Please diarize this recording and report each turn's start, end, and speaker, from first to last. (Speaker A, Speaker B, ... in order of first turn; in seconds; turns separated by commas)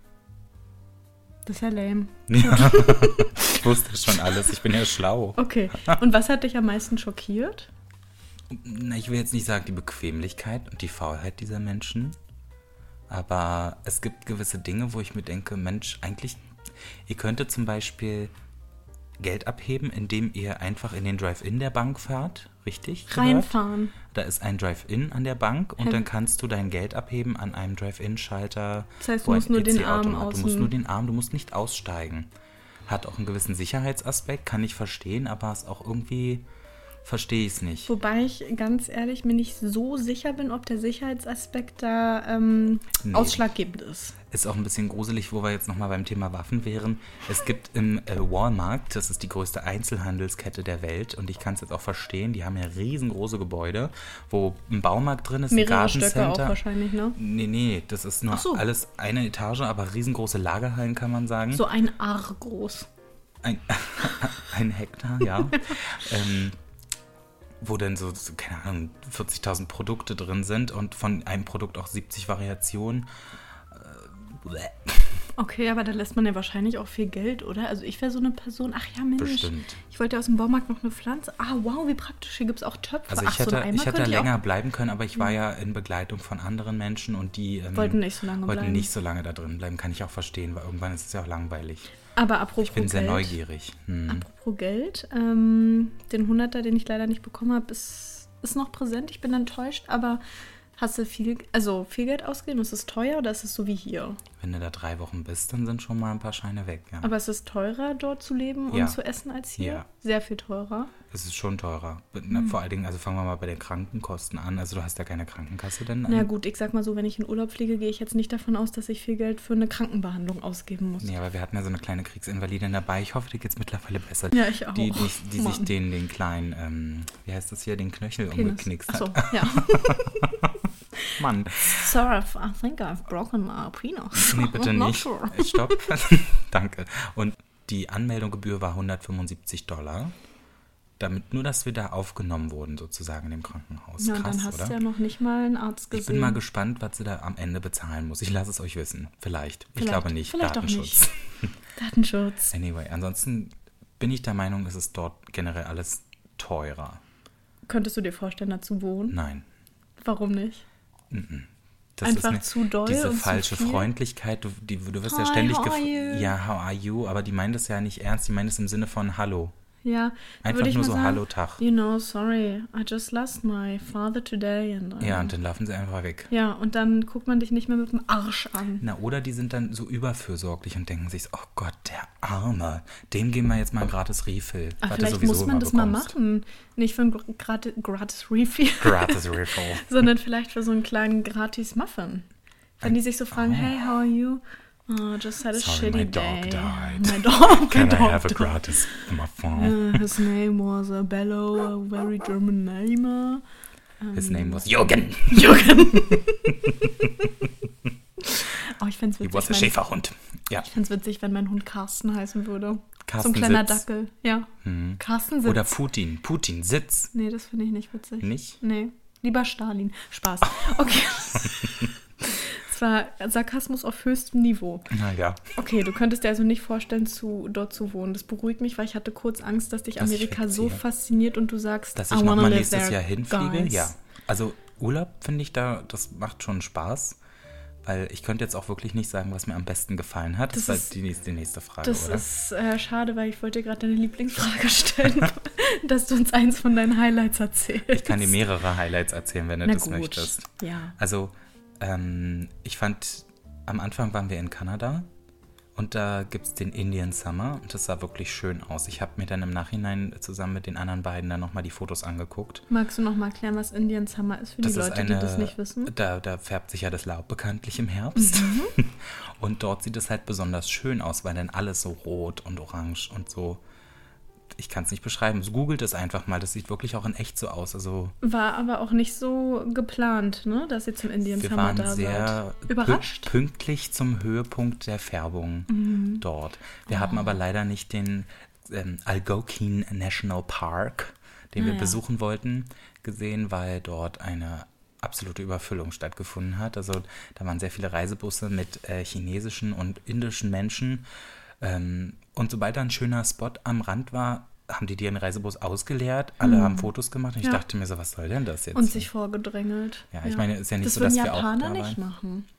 Speaker A: 1.5-3.7, Speaker B: 2.3-6.0, Speaker A: 5.4-7.7, Speaker B: 8.5-12.2, Speaker B: 13.1-16.4, Speaker B: 17.1-18.3, Speaker B: 19.2-23.5, Speaker A: 23.1-23.9, Speaker B: 24.1-32.3, Speaker A: 25.8-26.1, Speaker A: 29.0-30.7, Speaker B: 32.9-36.5, Speaker B: 37.0-37.9, Speaker A: 37.9-44.2, Speaker B: 43.0-43.4, Speaker B: 44.3-56.6, Speaker A: 55.5-57.2, Speaker B: 57.2-61.7, Speaker A: 58.3-58.7, Speaker A: 61.5-62.9, Speaker B: 63.4-66.6, Speaker B: 67.6-73.1, Speaker B: 73.7-75.2, Speaker A: 75.4-84.3, Speaker B: 79.2-79.8, Speaker B: 83.1-91.9, Speaker A: 87.7-88.9, Speaker A: 92.2-93.4, Speaker B: 92.6-94.3, Speaker A: 94.1-100.2, Speaker A: 100.8-104.2, Speaker B: 104.4-107.1, Speaker A: 107.0-110.9, Speaker B: 108.7-109.0, Speaker B: 109.6-109.8, Speaker B: 111.1-116.3, Speaker A: 116.1-121.2, Speaker B: 121.0-130.5, Speaker A: 124.3-125.7, Speaker A: 128.3-130.4, Speaker A: 131.0-135.9, Speaker B: 131.2-131.9, Speaker B: 134.3-140.2, Speaker B: 141.0-144.8, Speaker A: 144.0-146.4, Speaker B: 145.9-151.5, Speaker A: 149.8-151.1, Speaker A: 151.8-152.5, Speaker B: 152.5-157.0, Speaker A: 157.7-159.2, Speaker B: 159.1-159.5, Speaker A: 160.0-160.6, Speaker B: 161.1-169.5, Speaker A: 162.0-163.9, Speaker A: 165.0-166.3, Speaker A: 169.8-175.3, Speaker B: 170.4-171.6, Speaker B: 175.0-176.3, Speaker A: 176.3-178.8, Speaker B: 178.8-186.1, Speaker A: 184.8-192.3, Speaker B: 188.8-189.9, Speaker A: 192.8-198.8, Speaker B: 192.8-193.7, Speaker B: 195.5-200.0, Speaker A: 199.5-203.4, Speaker A: 204.0-204.7, Speaker B: 204.1-207.5, Speaker A: 205.3-206.6, Speaker A: 208.2-209.8, Speaker B: 209.2-210.7, Speaker A: 210.6-215.8, Speaker B: 213.1-213.8, Speaker B: 214.6-217.1, Speaker A: 217.1-224.9, Speaker B: 218.2-218.6, Speaker B: 221.3-221.9, Speaker B: 224.9-225.4, Speaker A: 225.6-233.9, Speaker B: 230.0-230.8, Speaker B: 231.9-237.2, Speaker B: 237.8-242.2, Speaker A: 240.5-240.9, Speaker A: 241.8-248.4, Speaker B: 247.9-255.1, Speaker A: 249.6-250.9, Speaker B: 255.8-262.6, Speaker A: 262.7-265.9, Speaker B: 264.6-273.6, Speaker A: 268.2-268.8, Speaker B: 274.6-278.1, Speaker A: 278.2-283.3, Speaker B: 281.4-301.1, Speaker A: 285.7-286.2, Speaker A: 286.9-287.3, Speaker A: 291.6-292.0, Speaker B: 301.6-309.1, Speaker A: 306.4-306.9, Speaker A: 308.8-312.5, Speaker B: 310.1-312.0